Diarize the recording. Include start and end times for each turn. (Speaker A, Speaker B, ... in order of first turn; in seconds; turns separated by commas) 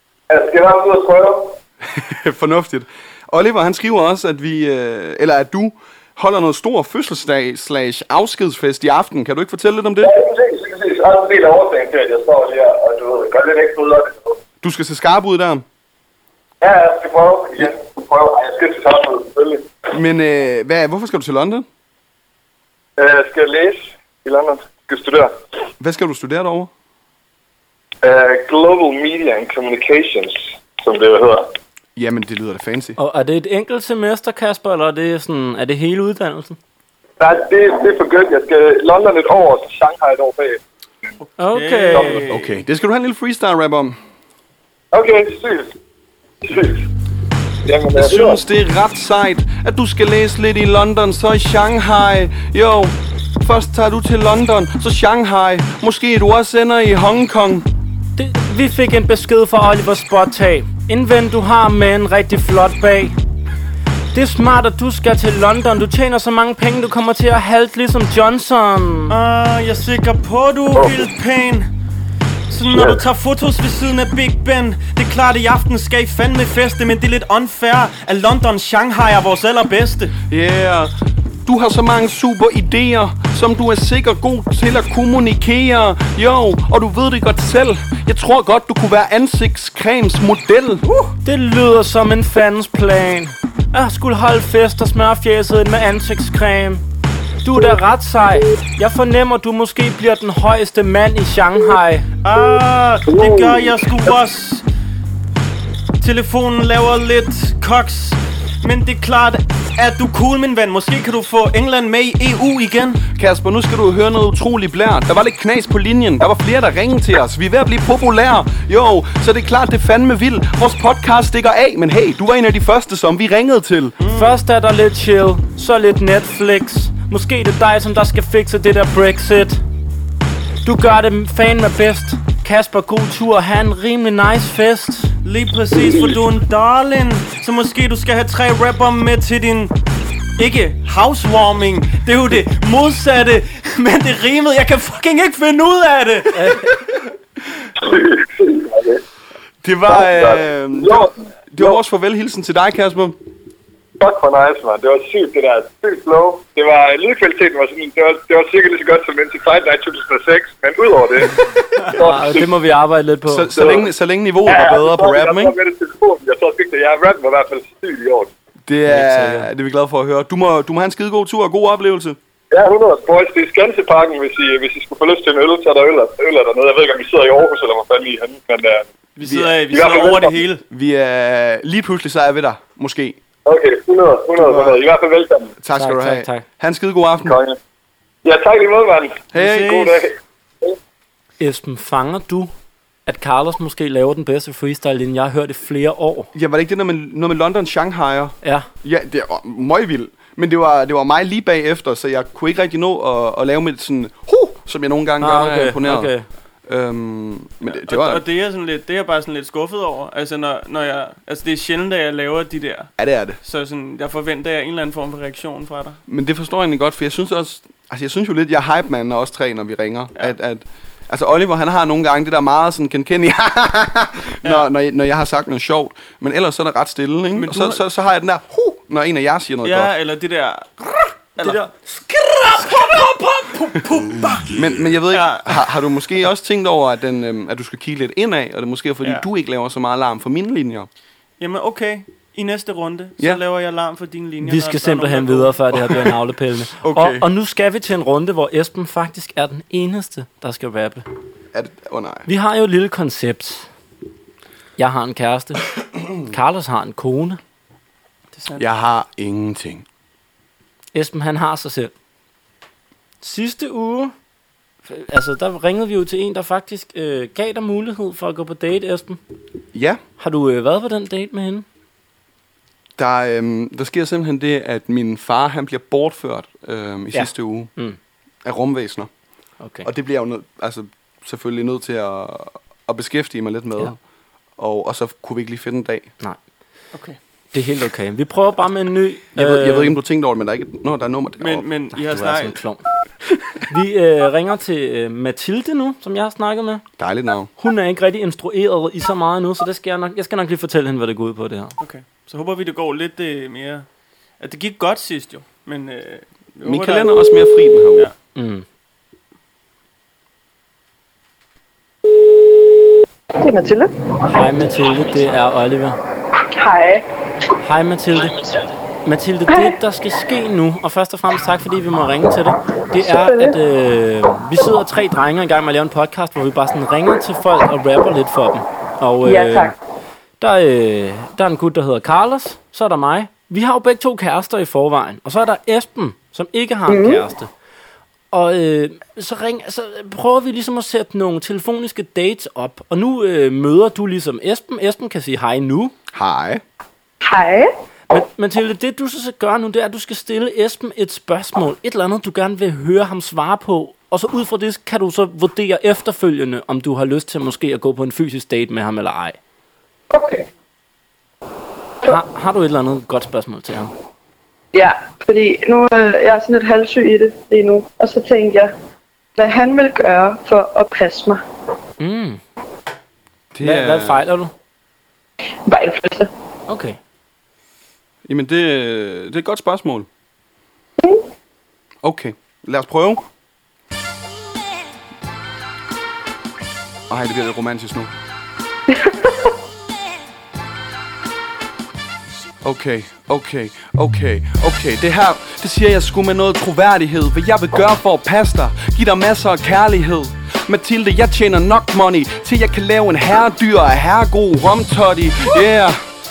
Speaker A: 0.3-1.5, Speaker B: 1.8-10.1, Speaker A: 10.0-14.4, Speaker B: 14.6-15.6, Speaker A: 16.6-19.7, Speaker B: 19.9-21.6, Speaker A: 23.0-25.3, Speaker B: 25.8-26.7, Speaker A: 28.0-31.5, Speaker B: 31.9-33.0, Speaker C: 33.0-36.6, Speaker A: 37.2-40.6, Speaker C: 41.4-42.2, Speaker D: 41.5-42.5, Speaker A: 41.9-42.2, Speaker B: 42.3-44.0, Speaker A: 44.9-45.7, Speaker A: 46.4-46.9, Speaker A: 47.6-48.4, Speaker B: 47.9-57.6, Speaker C: 58.2-63.1, Speaker C: 64.1-69.1, Speaker D: 69.1-71.7, Speaker A: 70.7-71.0, Speaker D: 72.5-80.1, Speaker A: 72.7-73.0, Speaker B: 80.3-80.9, Speaker B: 81.5-90.8, Speaker C: 91.2-96.8, Speaker C: 97.4-102.0, Speaker D: 102.2-104.6, Speaker D: 106.0-113.0, Speaker B: 113.1-123.9, Speaker D: 124.0-124.3, Speaker C: 124.1-129.6, Speaker C: 130.6-135.1, Speaker D: 135.2-139.7, Speaker D: 140.4-146.7, Speaker C: 146.3-146.7, Speaker A: 147.8-149.0, Speaker B: 149.6-153.2, Speaker A: 149.9-151.8, Speaker A: 154.0-161.4, Speaker A: 161.9-162.5, Speaker C: 161.9-163.5, Speaker B: 163.3-165.5, Speaker A: 163.5-163.9, Speaker A: 164.4-168.3, Speaker B: 168.7-172.2, Speaker C: 168.9-169.5, Speaker A: 172.5-178.8, Speaker D: 179.2-180.6, Speaker B: 179.2-179.6, Speaker A: 179.7-180.3, Speaker B: 180.7-183.2, Speaker A: 183.4-185.5, Speaker B: 184.4-184.8, Speaker B: 185.6-187.4, Speaker C: 185.8-186.4, Speaker A: 187.2-187.6, Speaker A: 188.2-190.1, Speaker B: 189.3-189.8, Speaker D: 189.3-190.0, Speaker C: 191.4-192.5, Speaker C: 193.1-196.3, Speaker B: 196.3-206.1, Speaker C: 198.4-198.7, Speaker C: 205.2-206.2, Speaker B: 206.7-208.2, Speaker D: 207.6-212.9, Speaker B: 213.0-213.4, Speaker D: 213.4-216.0, Speaker B: 216.1-229.9, Speaker D: 227.3-227.8, Speaker D: 229.6-231.6, Speaker C: 231.4-233.5, Speaker D: 233.5-235.6, Speaker B: 234.5-240.9, Speaker D: 241.4-245.9, Speaker C: 244.4-251.0, Speaker B: 246.8-247.2, Speaker B: 251.5-252.3, Speaker C: 252.3-253.7, Speaker C: 254.8-255.7, Speaker B: 255.9-256.2, Speaker C: 256.2-257.4, Speaker D: 258.3-258.6, Speaker B: 258.6-259.8, Speaker C: 260.9-261.9, Speaker C: 263.2-264.1, Speaker C: 264.9-269.2, Speaker B: 269.7-270.0, Speaker C: 270.2-271.6, Speaker B: 273.0-277.7, Speaker C: 277.1-278.0, Speaker B: 278.4-279.1, Speaker C: 279.6-279.9, Speaker B: 279.8-284.0, Speaker B: 284.6-286.1, Speaker C: 287.5-289.9, Speaker B: 289.4-291.6, Speaker D: 291.4-292.6, Speaker C: 291.9-292.8, Speaker C: 293.6-296.8, Speaker B: 297.0-297.5, Speaker C: 297.6-301.7, Speaker D: 301.8-303.9, Speaker D: 304.4-307.1, Speaker B: 306.6-308.1, Speaker C: 308.3-308.6, Speaker E: 313.4-313.9, Speaker C: 314.3-316.0, Speaker E: 316.5-317.0, Speaker C: 317.6-318.4, Speaker C: 319.0-329.7, Speaker E: 323.0-323.6, Speaker E: 329.2-329.7, Speaker C: 330.4-337.5, Speaker E: 336.9-337.2, Speaker C: 338.3-345.9, Speaker B: 346.1-346.6, Speaker E: 347.2-347.7, Speaker C: 348.1-359.4, Speaker E: 360.1-360.4, Speaker C: 362.0-363.9, Speaker E: 364.7-368.7, Speaker E: 369.4-371.4, Speaker C: 372.0-372.4, Speaker B: 373.5-374.2, Speaker C: 373.6-374.5, Speaker E: 375.6-376.3, Speaker C: 376.7-377.0, Speaker B: 378.2-380.1, Speaker B: 382.0-383.2, Speaker B: 387.1-388.1, Speaker E: 388.9-389.5, Speaker B: 392.6-406.0